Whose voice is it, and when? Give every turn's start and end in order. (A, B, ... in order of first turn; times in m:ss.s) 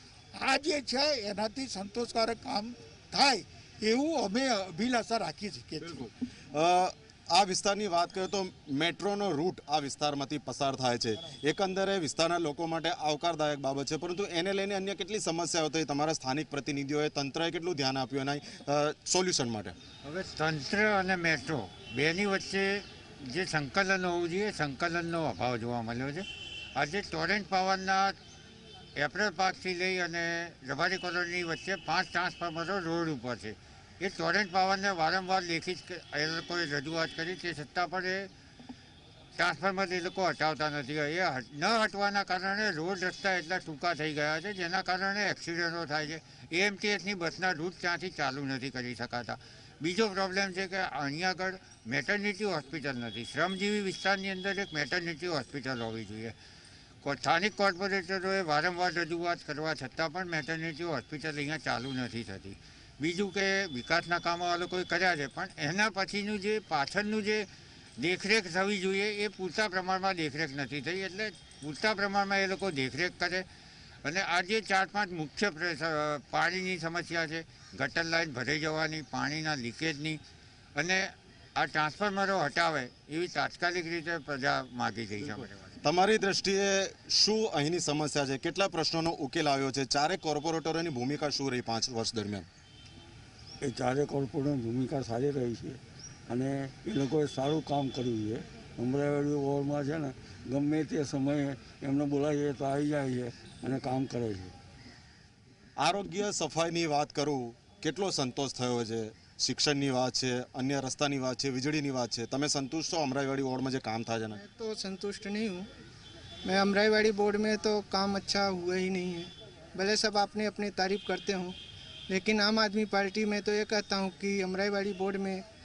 0:00.4-0:06.1 A
0:05.8-0:19.8 B
0:20.0-0:26.2 C
0:26.8-0:28.2 C
0:29.0-0:38.3 C
0:39.4-0:56.3 C
0:57.0-1:13.4 C
1:14.0-1:20.2 C
1:20.8-1:25.8 C
1:25.8-1:32.5 B
1:33.6-1:35.8 D
1:36.3-1:44.5 D
1:45.8-1:54.4 B
1:54.4-1:55.7 E
1:56.4-2:01.6 E
2:02.1-2:05.4 E